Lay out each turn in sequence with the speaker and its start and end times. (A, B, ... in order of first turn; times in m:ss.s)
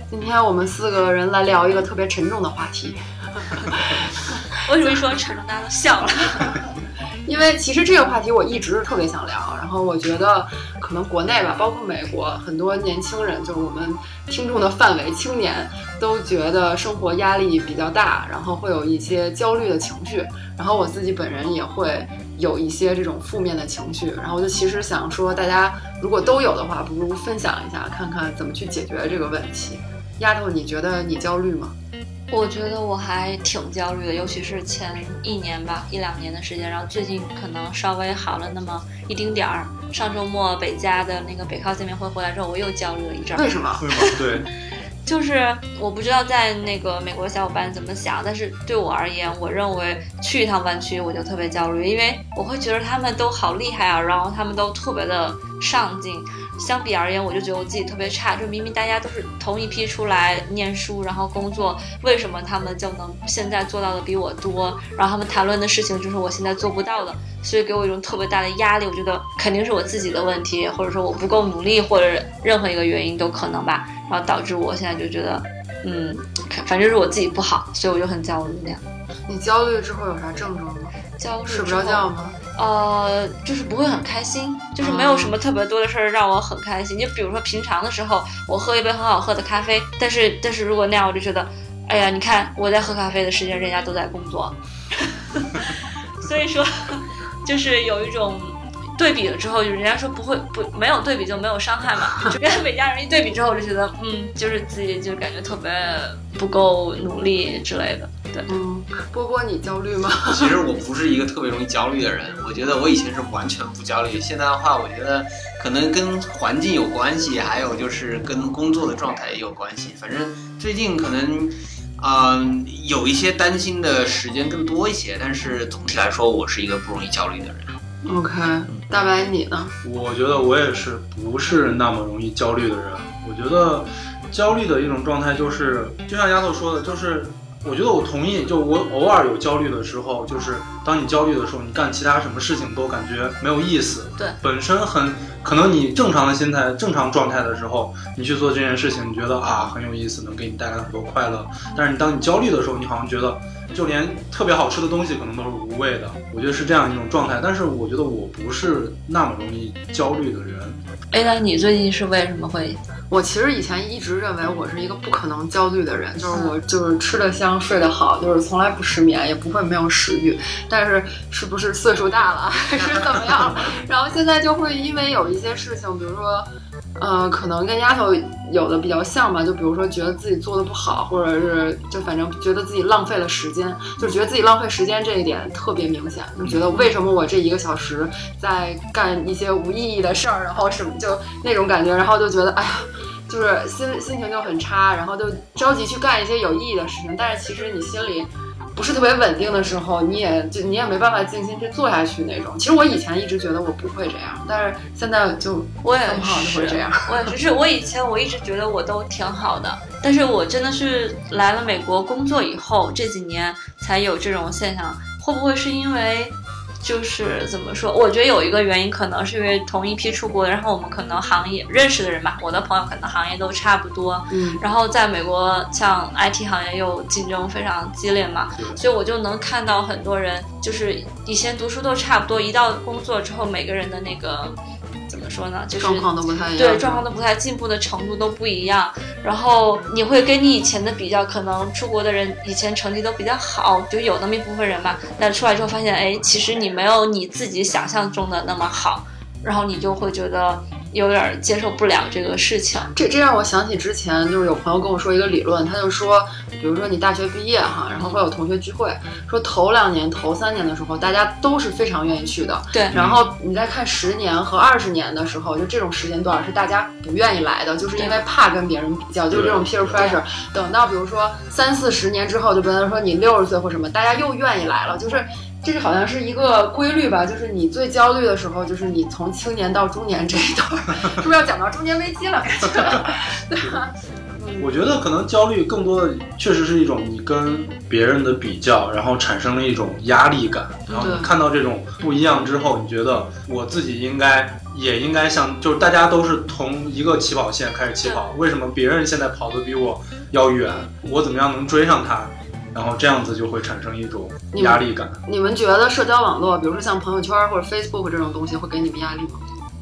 0:00.1-0:04.3 A
0:04.6-0:06.5 B
0:07.2-0:31.7 A
0:32.3-0:44.2 B
0:43.4-0:43.8 A
0:43.8-0:44.5 C
0:45.0-1:18.8 B
1:19.3-1:22.4 A
1:21.2-1:48.5 B
1:24.8-1:25.3 A
1:48.5-1:50.6 A
1:50.2-2:07.7 D
2:08.0-2:09.7 A
2:09.8-2:40.8 C
2:41.1-2:42.8 B
2:43.1-3:27.2 A
2:52.7-2:53.3 D
3:25.8-3:54.6 B
3:44.3-3:44.6 A
3:55.1-4:12.9 B
3:55.8-3:57.0 A
4:12.9-4:44.7 A
4:18.0-4:18.2 B
4:22.9-4:23.2 C
4:29.3-4:30.0 C
4:44.6-5:05.2 C
4:50.9-4:51.2 B
4:50.9-4:51.3 A
5:04.5-5:09.4 A